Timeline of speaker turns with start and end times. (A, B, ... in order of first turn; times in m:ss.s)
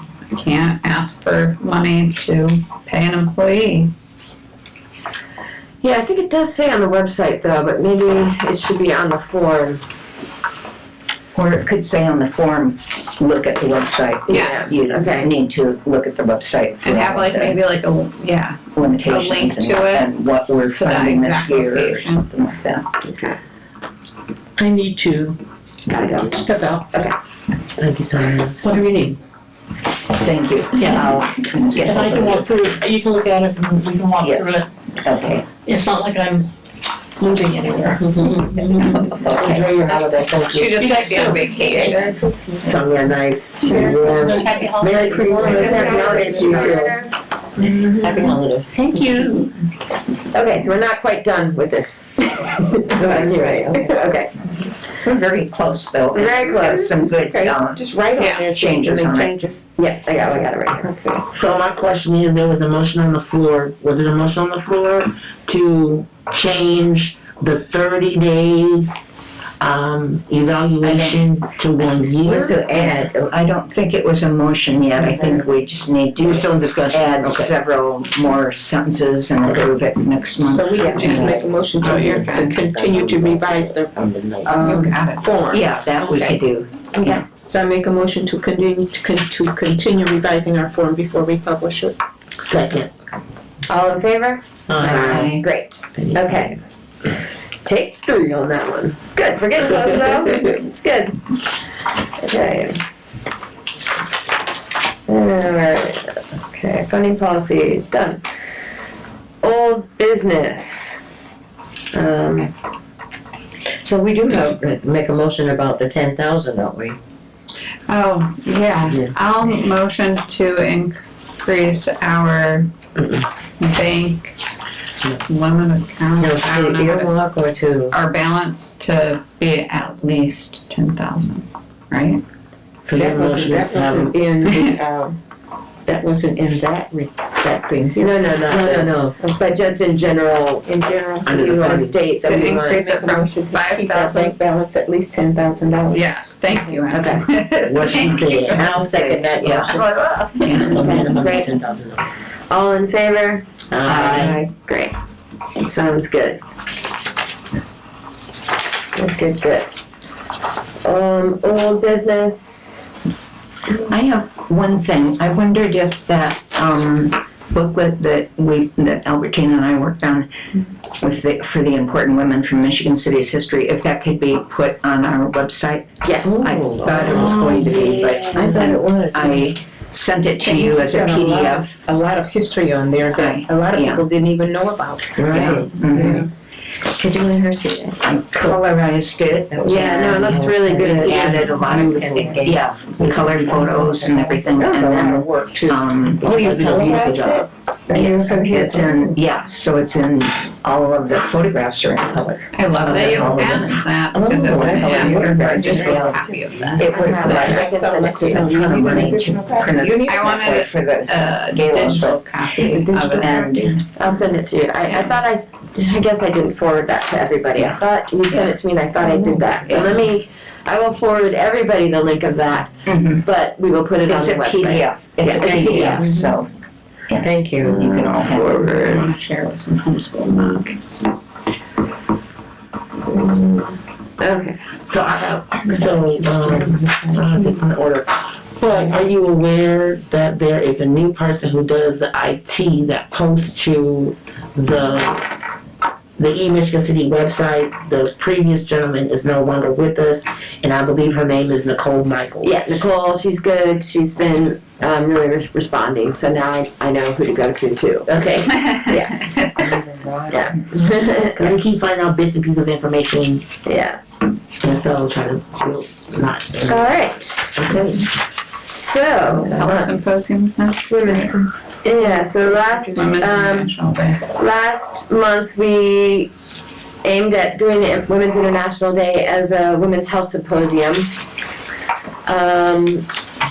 0:00.3-0:03.9 A
0:05.8-0:09.8 B
0:11.3-0:17.6 C
0:14.3-0:15.3 B
0:14.3-0:14.7 A
0:16.8-0:20.1 A
0:18.7-0:22.8 C
0:20.7-0:22.5 A
0:23.0-0:23.4 B
0:24.6-0:25.4 D
0:25.9-0:27.1 B
0:26.3-0:26.7 D
0:27.8-0:28.6 E
0:28.6-0:29.2 D
0:30.1-0:32.7 C
0:31.7-0:34.7 D
0:34.2-0:35.5 C
0:35.6-0:36.5 D
0:37.2-0:38.8 D
0:38.1-0:38.6 F
0:38.6-0:39.6 C
0:39.2-0:41.0 E
0:40.5-0:42.2 A
0:40.7-0:42.0 D
0:42.6-0:47.0 E
0:43.6-0:46.9 D
0:45.4-0:47.1 B
0:47.8-0:48.2 G
0:48.0-0:48.6 F
0:48.7-0:49.5 D
0:50.3-0:54.3 B
0:53.0-0:53.7 F
0:55.0-0:57.9 C
0:56.1-0:57.0 B
0:56.9-0:59.6 G
0:58.2-0:58.5 A
0:58.4-0:59.4 C
0:59.8-1:00.8 B
1:00.8-1:01.2 G
1:01.3-1:12.6 E
1:10.8-1:11.2 C
1:12.2-1:13.3 F
1:12.6-1:21.4 C
1:15.1-1:15.4 F
1:16.2-1:17.5 E
1:19.4-1:19.7 E
1:20.4-1:26.4 G
1:20.8-1:24.6 F
1:20.9-1:22.5 A
1:24.6-1:25.2 A
1:25.5-1:27.1 C
1:26.9-1:27.3 B
1:27.3-1:32.0 G
1:32.4-1:32.9 E
1:33.7-1:34.5 B
1:34.7-1:35.4 E
1:34.8-1:35.2 G
1:34.9-1:35.4 C
1:35.3-1:41.4 B
1:35.9-1:36.3 E
1:42.2-1:42.8 B
1:45.1-1:48.2 B
1:49.4-1:51.0 B
1:51.9-1:52.5 B
1:53.8-1:57.0 F
1:57.9-2:02.7 A
2:03.6-2:04.4 A
2:05.2-2:07.2 A
2:06.2-2:07.9 F
2:07.9-2:12.2 A
2:12.8-2:14.1 E
2:12.9-2:15.2 G
2:14.5-2:14.8 A
2:15.9-2:18.1 G
2:18.0-2:22.8 B
2:18.4-2:19.2 F
2:20.6-2:26.8 G
2:21.2-2:22.0 E
2:22.2-2:24.4 A
2:25.9-2:28.5 A
2:26.9-2:27.2 B
2:27.6-2:28.9 E
2:28.5-2:29.9 F
2:29.4-2:29.8 C
2:30.2-2:30.6 A
2:30.3-2:31.0 C
2:30.5-2:31.5 B
2:30.6-2:32.0 E
2:32.5-2:34.9 B
2:33.7-2:34.4 E
2:34.2-2:34.5 G
2:35.5-2:36.4 B
2:38.9-2:39.7 B
2:40.8-2:42.9 B
2:43.8-2:50.3 C
2:51.0-3:01.8 C
2:56.0-2:56.5 B
2:56.2-2:58.4 F
2:56.9-2:57.7 E
2:58.3-2:59.6 G
3:00.4-3:06.3 G
3:03.1-3:04.1 C
3:05.2-3:05.8 F
3:05.3-3:06.3 C
3:08.0-3:10.5 C
3:09.6-3:12.3 B
3:10.1-3:13.3 F
3:11.0-3:26.2 C
3:11.4-3:12.5 G
3:13.4-3:13.8 G
3:13.9-3:14.4 F
3:14.5-3:19.1 G
3:16.2-3:17.2 E
3:22.5-3:27.7 A
3:24.1-3:30.2 G
3:26.8-3:29.0 B
3:27.0-3:27.5 C
3:28.3-3:33.8 C
3:30.1-3:33.7 A
3:32.7-3:46.2 B
3:34.9-3:35.2 A
3:38.3-3:38.6 C
3:39.2-3:40.0 C
3:42.8-3:43.2 C
3:44.0-3:46.5 C
3:45.9-3:46.2 F
3:47.1-3:49.1 C
3:47.2-3:47.9 F
3:47.9-3:51.1 A
3:53.0-3:54.6 B
3:54.8-4:05.3 E
4:06.2-4:12.6 E
4:12.4-4:19.7 B
4:18.1-4:18.7 F
4:19.6-4:21.4 F
4:20.3-4:21.4 B
4:21.4-4:23.4 E
4:23.6-4:24.0 B
4:24.6-4:27.0 E
4:26.7-4:27.7 B
4:27.6-4:28.0 F
4:28.6-4:29.9 B
4:29.4-4:29.8 F
4:29.6-4:31.4 A
4:30.9-4:33.7 B
4:32.0-4:34.2 A
4:34.3-4:36.3 B
4:37.0-4:41.1 B
4:42.2-4:43.1 B